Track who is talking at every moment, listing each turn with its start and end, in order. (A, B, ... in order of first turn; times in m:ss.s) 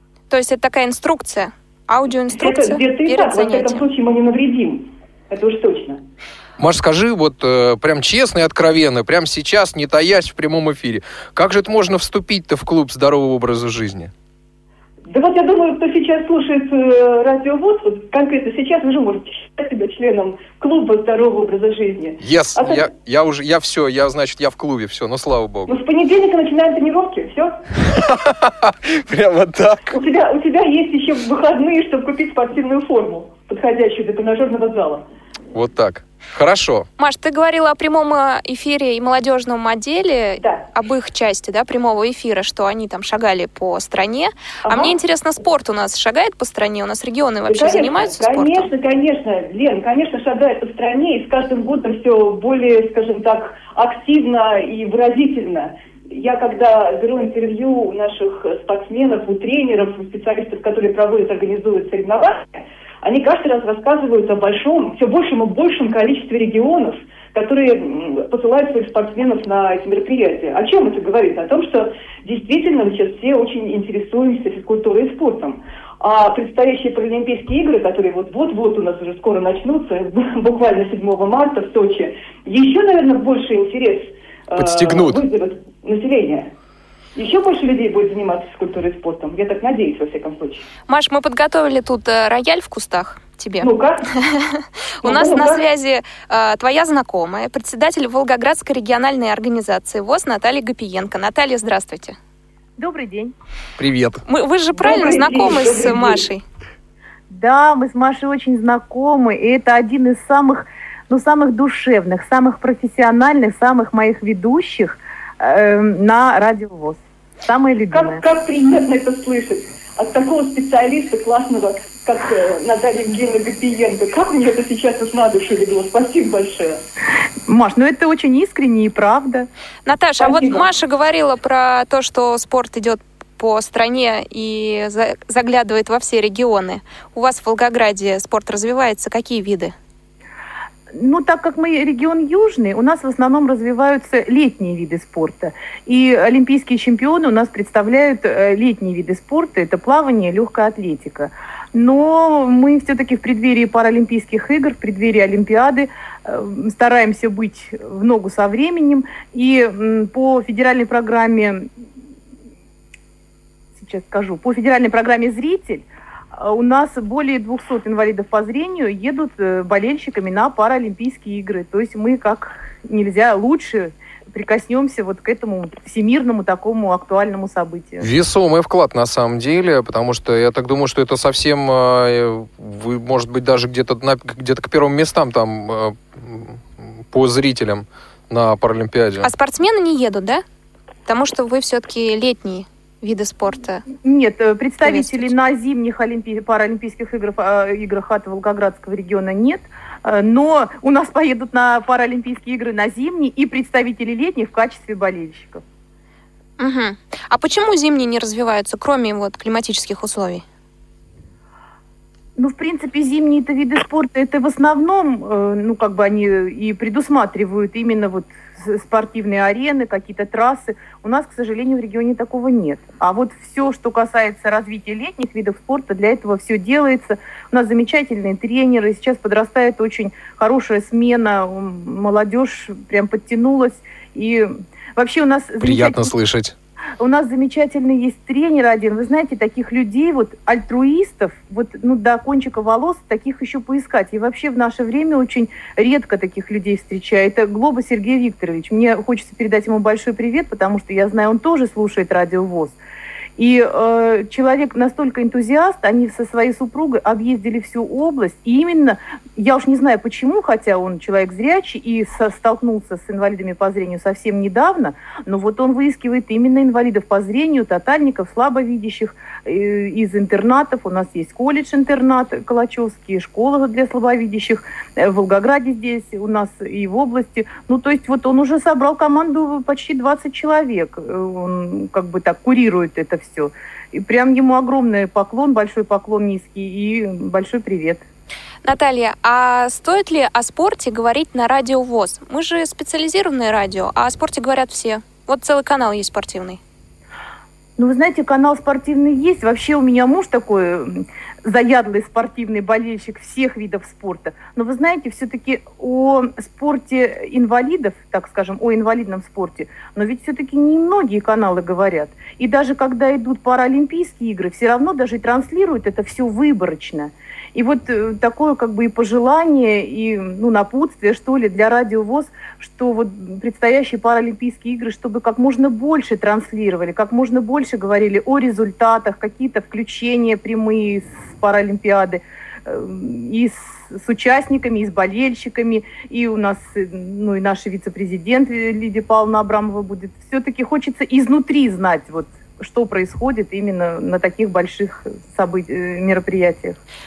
0:00.3-0:03.8 A
0:02.4-0:06.0 B
0:06.6-0:14.1 C
0:15.1-0:22.9 B
0:22.2-0:25.8 C
0:25.7-0:27.6 B
0:27.9-0:30.0 C
0:29.9-0:35.0 B
0:35.5-0:36.9 C
0:37.0-0:48.7 A
0:40.4-0:40.7 B
0:44.7-0:45.0 B
0:47.5-1:26.5 B
1:24.6-1:25.2 C
1:27.2-1:30.7 B
1:30.9-1:42.2 A
1:33.6-1:34.1 B
1:35.0-1:35.6 B
1:42.8-1:43.3 D
1:43.8-1:44.2 C
1:44.3-1:46.4 A
1:44.7-1:46.3 B
1:47.3-1:58.2 D
1:57.9-2:06.8 B
2:07.5-2:09.5 D
2:09.9-2:19.7 A
2:10.2-2:10.7 B
2:21.0-2:41.7 D
2:43.8-2:58.1 D
2:58.0-3:09.3 C
3:09.2-3:10.4 A
3:11.1-3:13.9 A
3:14.0-3:25.6 D
3:14.8-3:15.3 A
3:26.6-3:30.4 A
3:32.4-3:56.1 D
3:55.6-3:56.6 C
3:57.0-4:12.8 D
4:13.4-4:48.0 D
4:48.6-4:56.6 A
4:57.8-5:46.8 D